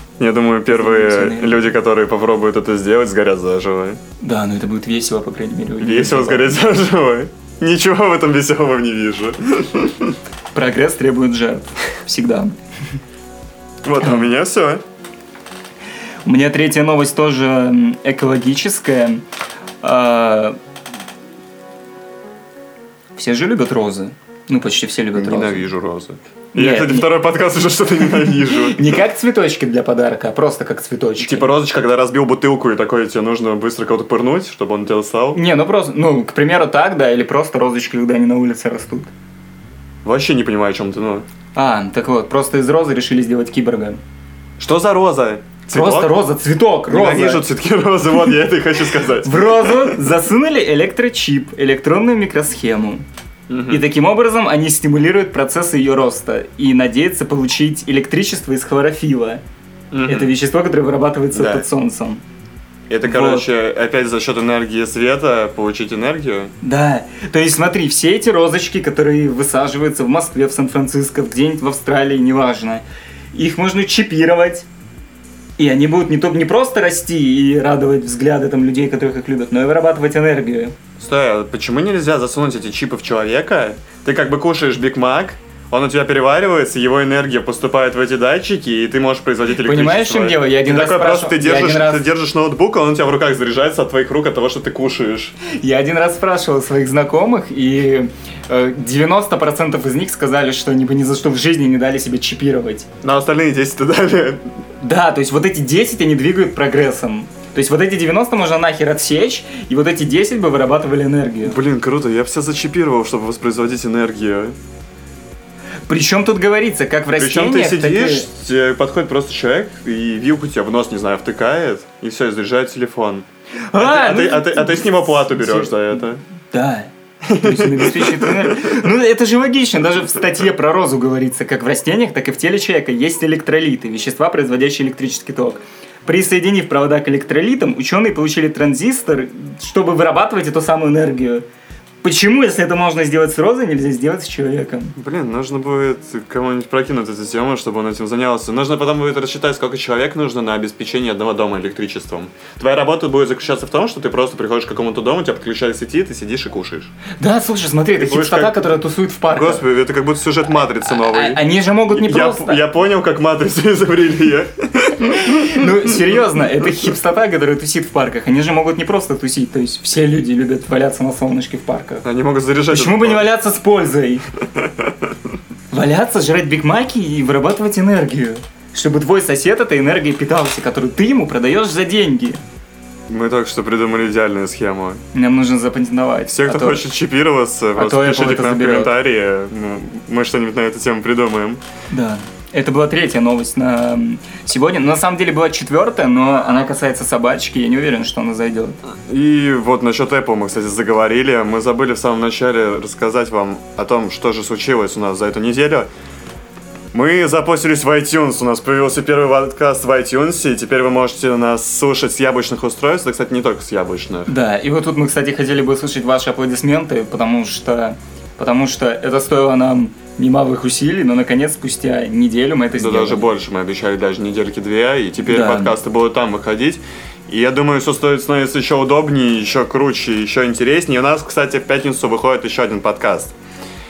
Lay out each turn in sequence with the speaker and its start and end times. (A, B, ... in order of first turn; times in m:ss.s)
0:00.2-0:04.0 A
0:00.7-0:01.7 B
0:04.2-0:06.6 B
0:05.8-0:10.1 A
0:10.5-0:12.5 B
0:13.8-0:14.8 A
0:14.0-0:14.3 B
0:16.2-0:19.2 B
0:19.8-0:20.6 B
0:23.1-0:25.6 B
0:25.1-0:29.0 A
0:26.5-0:27.2 B
0:28.0-0:31.5 B
0:31.2-0:35.4 A
0:35.3-0:39.1 B
0:40.0-0:41.2 A
0:41.5-0:44.0 B
0:44.6-0:46.1 A
0:45.7-0:47.5 B
0:46.9-0:50.0 A
0:49.2-0:53.0 B
0:53.5-0:53.8 A
0:53.7-0:59.4 B
0:59.9-1:00.3 A
1:00.0-1:02.2 B
1:01.3-1:01.7 A
1:02.9-1:06.5 A
1:03.0-1:03.5 B
1:06.6-1:14.7 B
1:15.6-1:20.8 B
1:21.0-1:35.4 A
1:29.5-1:32.1 B
1:35.4-1:42.9 B
1:43.0-1:44.4 A
1:44.8-1:51.6 B
1:51.4-1:54.6 A
1:55.9-1:58.3 B
1:57.2-2:03.2 A
2:03.7-2:21.4 B
2:03.8-2:06.2 A
2:07.2-2:08.8 A
2:22.0-2:24.9 B
2:25.0-2:36.9 A
2:37.1-2:39.6 B
2:38.0-2:38.8 A
2:39.3-2:45.7 A
2:40.8-2:42.7 B
2:44.9-2:52.0 B
2:52.0-2:53.3 A
2:52.7-2:54.2 B
2:55.7-3:02.4 B
3:03.1-3:05.0 A
3:05.1-3:06.9 B
3:06.3-3:11.6 A
3:07.7-3:09.0 B
3:11.9-3:18.8 B
3:19.1-3:25.9 A
3:26.9-3:34.3 A
3:34.2-3:43.3 B
3:42.8-3:53.3 A
3:45.2-3:45.8 B